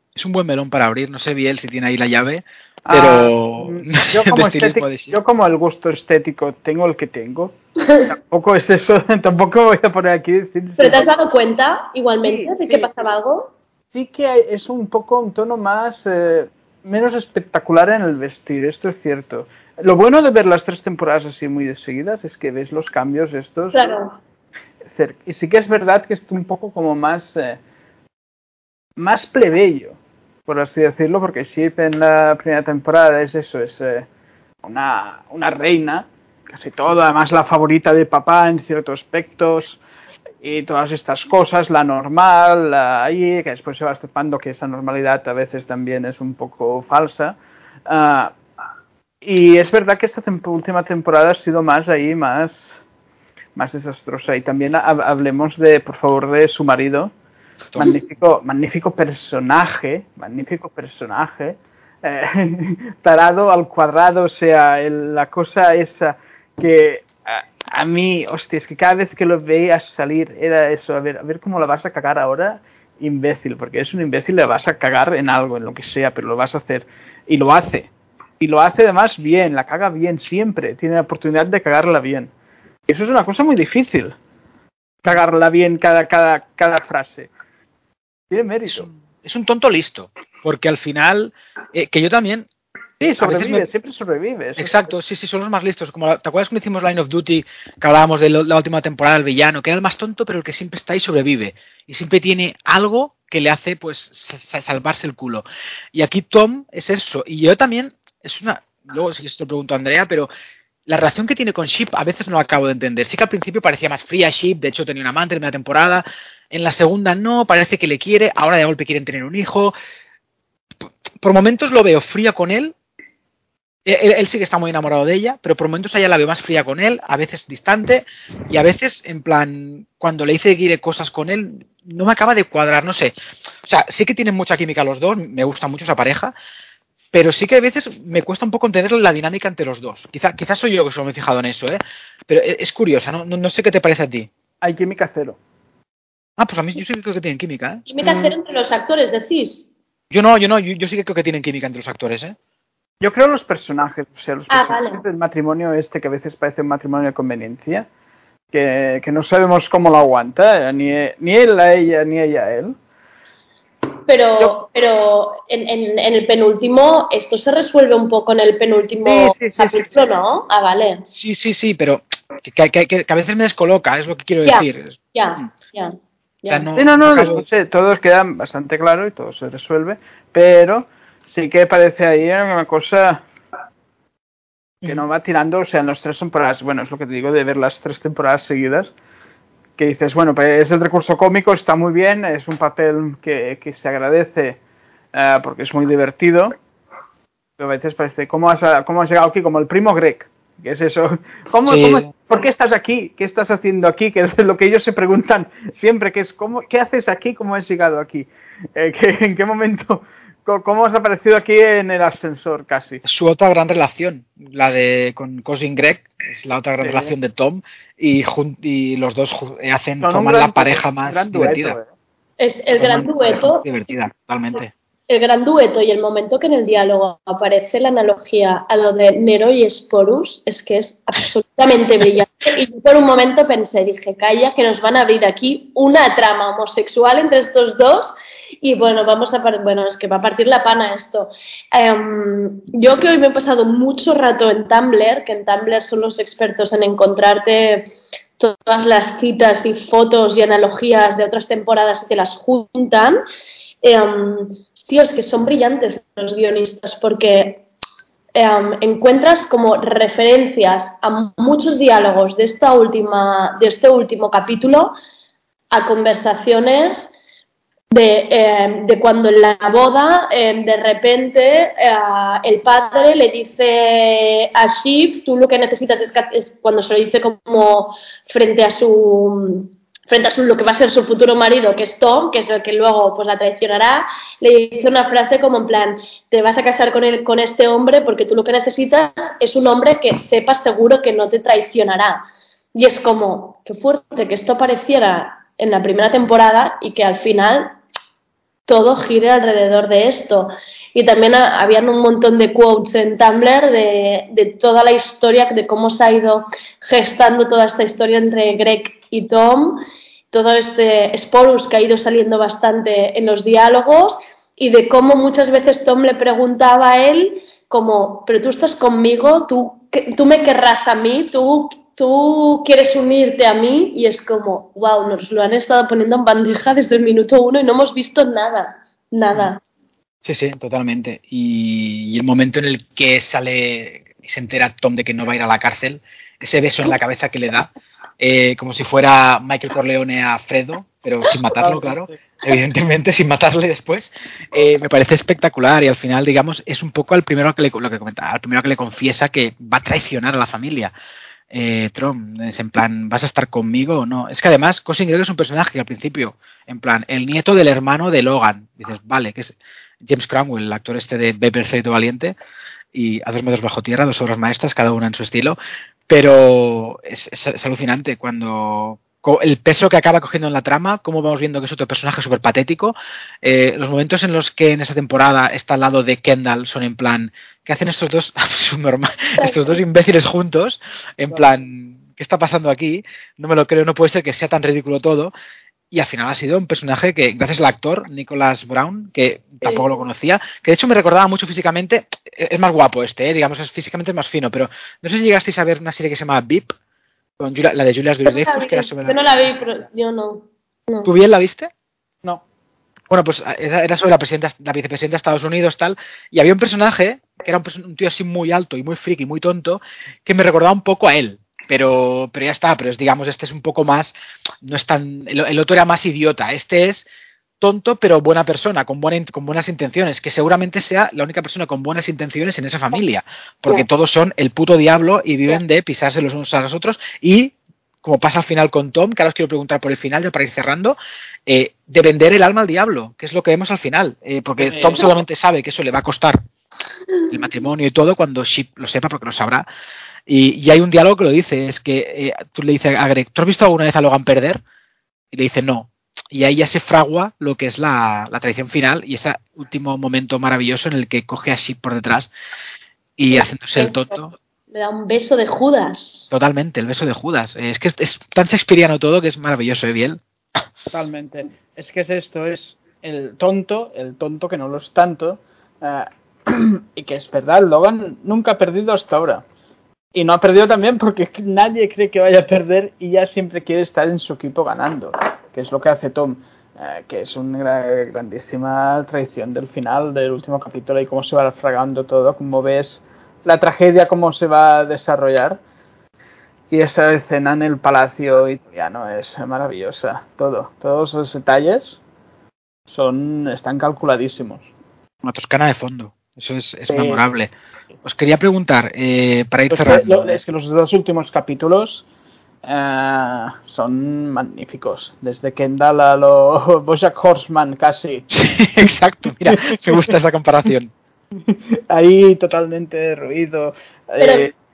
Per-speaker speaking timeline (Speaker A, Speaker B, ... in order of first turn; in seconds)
Speaker A: 0.1-5.2, 88.7-92.5, 93.0-93.7, 94.6-105.4, 105.9-110.3, 110.9-119.7, 121.2-122.7, 123.8-133.1, 133.7-136.3, 137.1-144.3, 146.4-147.8, 150.1-152.3, 171.1-175.4, 176.5-177.4, 201.7-202.1, 213.0-221.8, 222.7-224.7, 330.2-337.7, 338.2-350.9, 351.5-362.3, 362.9-365.6, 366.1-385.3, 385.9-396.7, 397.4-399.6, 401.0-401.7, 403.1-417.1, 417.6-436.4, 437.3-439.6, 440.3-444.6, 445.3-452.3, 453.2-454.3, 456.3-460.2, 495.2-497.5, 498.0-500.4, 508.3-510.9
Speaker B: 2.9-7.5, 8.1-11.1, 12.2-12.9, 13.9-23.9, 24.9-27.6, 29.0-29.9, 30.5-34.0, 34.6-39.8, 40.4-47.4, 47.9-48.3, 49.2-52.8, 53.5-57.1, 57.7-82.3, 82.9-84.1, 85.0-87.3, 88.3-88.9, 93.0-94.9, 144.6-145.4, 148.0-148.3, 153.0-157.9, 158.5-162.8, 169.0-170.0, 176.8-183.2, 184.8-188.9, 189.8-194.6, 195.1-196.6, 197.6-213.0, 216.8-217.1, 220.0-221.9, 341.6-342.1, 434.6-435.1, 460.9-469.4, 470.1-485.6, 486.7-492.0, 492.9-494.6, 496.9-497.2, 499.7-502.0, 502.6-508.3, 509.4-510.1, 511.5-514.5
Speaker C: 10.8-13.5, 23.7-24.1, 147.9-149.7, 154.5-155.0, 164.1-171.0, 174.4-176.7, 222.4-223.6, 225.1-253.2, 253.8-257.6, 258.3-264.9, 265.7-267.1, 267.9-292.2, 292.7-297.8, 298.6-329.6, 379.4-379.7, 398.2-401.1, 453.3-454.2, 454.7-456.3, 514.2-514.5